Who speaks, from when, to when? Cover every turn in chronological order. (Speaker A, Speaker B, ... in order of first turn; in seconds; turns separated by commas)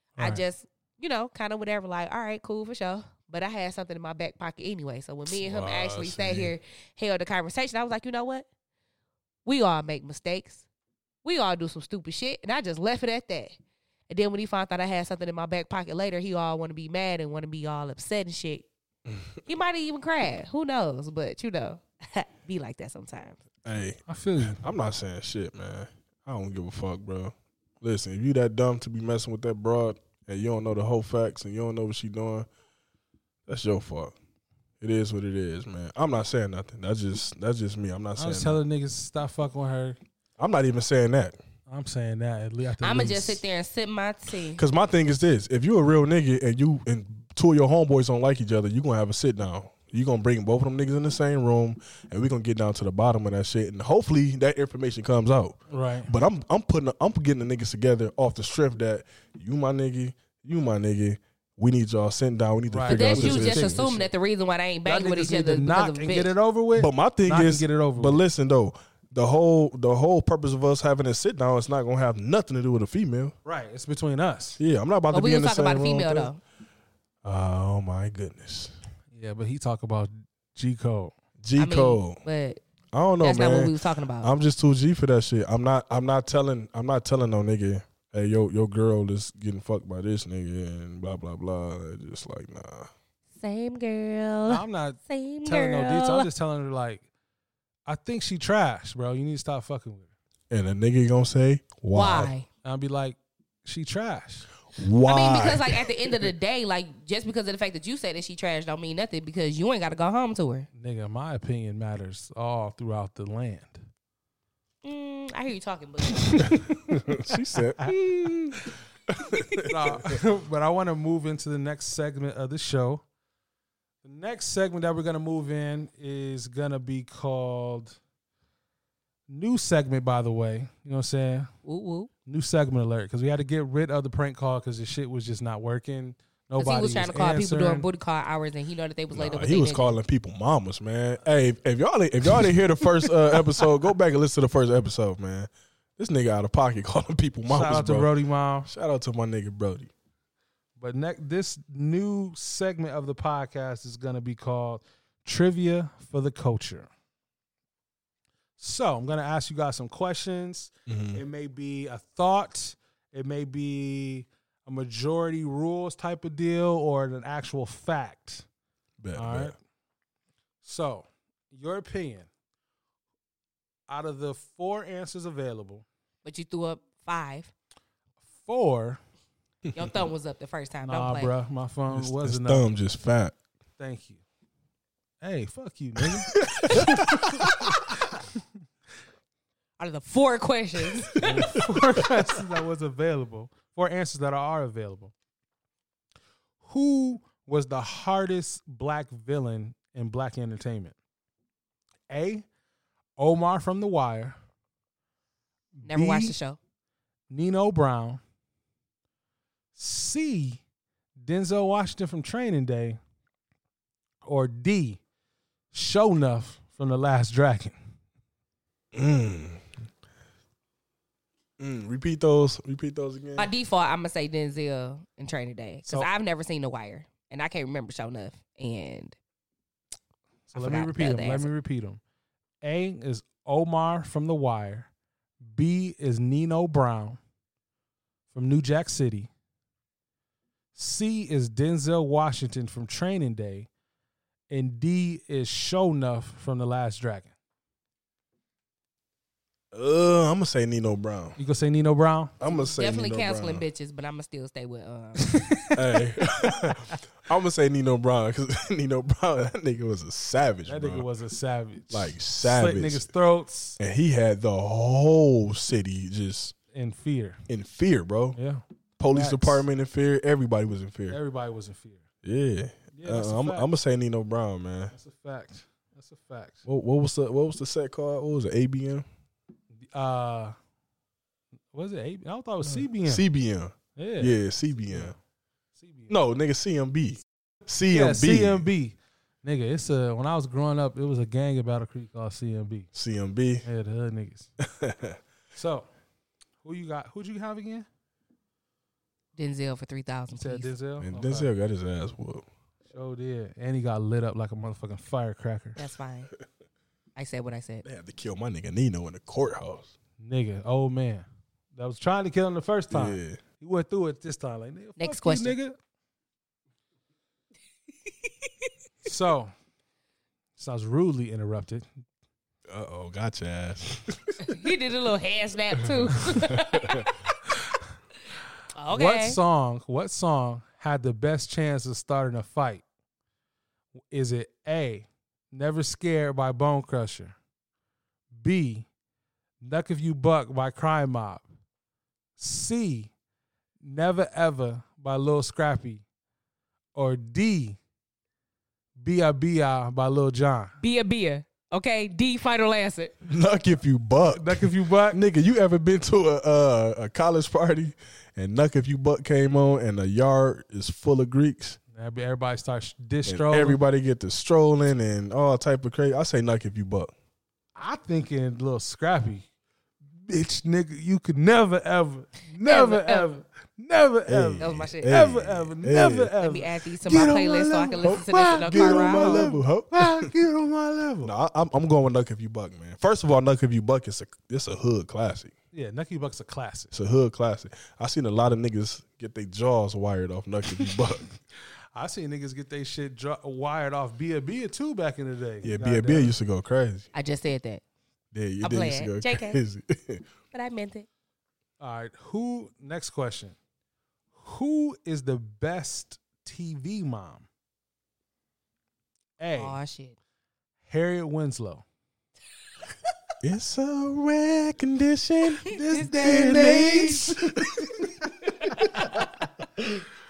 Speaker A: 0.2-8.5, Speaker B: 5.3-6.5, Speaker A: 9.4-10.7, Speaker A: 11.2-13.6, Speaker A: 14.1-18.7, Speaker A: 19.5-23.4, Speaker B: 23.6-32.5, Speaker C: 24.1-24.6, Speaker B: 33.5-34.1, Speaker B: 34.8-38.6, Speaker C: 38.2-40.0, Speaker B: 40.4-41.4, Speaker C: 41.7-43.4, Speaker A: 42.8-44.6, Speaker B: 44.6-63.9, Speaker C: 55.7-56.1, Speaker C: 62.7-64.1, Speaker A: 62.9-66.3, Speaker C: 64.9-68.2, Speaker B: 66.8-73.3, Speaker C: 73.5-74.6, Speaker B: 74.6-76.3, Speaker A: 75.1-76.4, Speaker B: 77.2-78.7, Speaker C: 79.1-81.1, Speaker B: 81.4-82.2, Speaker A: 81.6-82.6, Speaker B: 82.9-92.9, Speaker A: 83.2-84.3, Speaker A: 93.4-96.3, Speaker C: 94.5-97.0, Speaker C: 97.9-100.1, Speaker B: 100.5-102.3, Speaker A: 101.9-102.5, Speaker C: 102.6-104.5, Speaker B: 104.8-106.3, Speaker A: 105.0-110.7, Speaker C: 110.8-113.9, Speaker A: 114.8-116.5, Speaker C: 116.3-117.0, Speaker B: 117.1-118.6, Speaker B: 119.1-120.2, Speaker C: 119.7-123.0, Speaker C: 124.0-128.0, Speaker C: 129.3-131.5, Speaker A: 131.6-132.1, Speaker C: 132.3-137.8, Speaker A: 136.6-140.0, Speaker B: 139.1-148.1, Speaker C: 147.5-148.7, Speaker B: 148.7-149.9, Speaker C: 150.8-156.9, Speaker C: 158.6-168.5, Speaker B: 160.9-161.2, Speaker B: 169.0-169.6, Speaker C: 169.2-169.6, Speaker C: 170.6-172.3, Speaker C: 173.9-175.8, Speaker A: 176.2-177.5, Speaker C: 178.4-179.0, Speaker A: 179.7-181.3, Speaker C: 180.9-182.7, Speaker B: 181.9-183.4, Speaker C: 183.8-184.2, Speaker C: 185.2-187.2, Speaker B: 186.0-187.8, Speaker A: 189.8-191.5, Speaker C: 191.2-195.1, Speaker C: 196.6-200.9, Speaker C: 202.1-202.5, Speaker C: 203.2-204.4, Speaker C: 205.8-206.4, Speaker A: 205.8-206.6, Speaker C: 207.3-208.2, Speaker C: 209.8-210.6, Speaker C: 211.2-213.0, Speaker C: 214.2-215.0, Speaker C: 215.7-217.8, Speaker B: 218.9-219.7, Speaker B: 221.6-223.5, Speaker A: 223.4-229.2, Speaker C: 230.5-232.0, Speaker A: 230.5-231.5, Speaker C: 232.6-234.9, Speaker C: 235.4-237.2, Speaker C: 238.3-239.3, Speaker C: 240.8-243.7, Speaker C: 244.5-247.3, Speaker B: 249.7-251.4, Speaker C: 251.4-252.4, Speaker B: 252.4-253.7, Speaker A: 252.8-255.4, Speaker C: 255.3-255.7, Speaker B: 255.8-261.1, Speaker C: 260.7-263.8, Speaker B: 261.9-263.1, Speaker B: 263.8-266.6, Speaker C: 266.7-267.4, Speaker B: 267.5-268.4, Speaker C: 268.4-269.6, Speaker B: 269.0-271.2, Speaker C: 271.1-272.0, Speaker B: 272.2-274.9, Speaker C: 272.9-273.7, Speaker C: 274.9-276.6, Speaker B: 276.7-279.1, Speaker C: 279.8-280.6, Speaker C: 281.7-283.2, Speaker B: 282.6-285.1, Speaker C: 284.0-284.4, Speaker C: 284.9-285.2, Speaker C: 285.8-286.1, Speaker B: 286.1-288.6, Speaker C: 287.9-292.9, Speaker B: 292.9-293.6, Speaker C: 293.6-294.5, Speaker B: 294.6-295.2, Speaker C: 295.6-295.9, Speaker C: 296.6-297.9, Speaker A: 299.4-300.7, Speaker C: 300.3-301.5, Speaker B: 301.0-302.5, Speaker C: 302.9-305.8, Speaker A: 305.8-306.3, Speaker A: 307.2-307.9, Speaker B: 307.8-309.9, Speaker C: 310.2-315.8, Speaker B: 312.9-313.4, Speaker A: 315.0-315.6, Speaker C: 319.1-319.5, Speaker C: 320.6-321.9, Speaker B: 322.7-324.4, Speaker A: 324.4-327.1, Speaker B: 325.9-327.1, Speaker A: 328.8-329.4, Speaker C: 328.9-332.8, Speaker C: 334.1-337.4, Speaker C: 338.3-338.9, Speaker C: 339.6-341.5, Speaker C: 342.4-343.1, Speaker C: 343.8-346.0, Speaker C: 346.9-347.8, Speaker C: 349.0-350.7, Speaker A: 350.8-353.1, Speaker B: 353.2-361.8, Speaker C: 354.3-355.2, Speaker C: 361.9-363.8, Speaker B: 363.3-367.1, Speaker C: 367.8-369.5, Speaker C: 370.3-381.3, Speaker A: 372.6-373.3, Speaker B: 374.3-376.3, Speaker A: 374.6-375.1, Speaker A: 376.4-379.5, Speaker B: 378.0-380.3, Speaker B: 381.2-385.5, Speaker C: 385.7-386.9, Speaker B: 386.9-391.3, Speaker C: 391.9-396.3, Speaker B: 395.6-397.1, Speaker A: 397.1-397.8, Speaker B: 398.3-400.3, Speaker A: 398.6-399.6, Speaker A: 400.5-401.1, Speaker C: 401.8-403.6, Speaker C: 404.4-407.5, Speaker C: 409.4-409.8, Speaker A: 409.6-410.2, Speaker C: 410.9-411.9, Speaker B: 413.4-418.0, Speaker C: 415.7-417.4, Speaker A: 416.0-416.9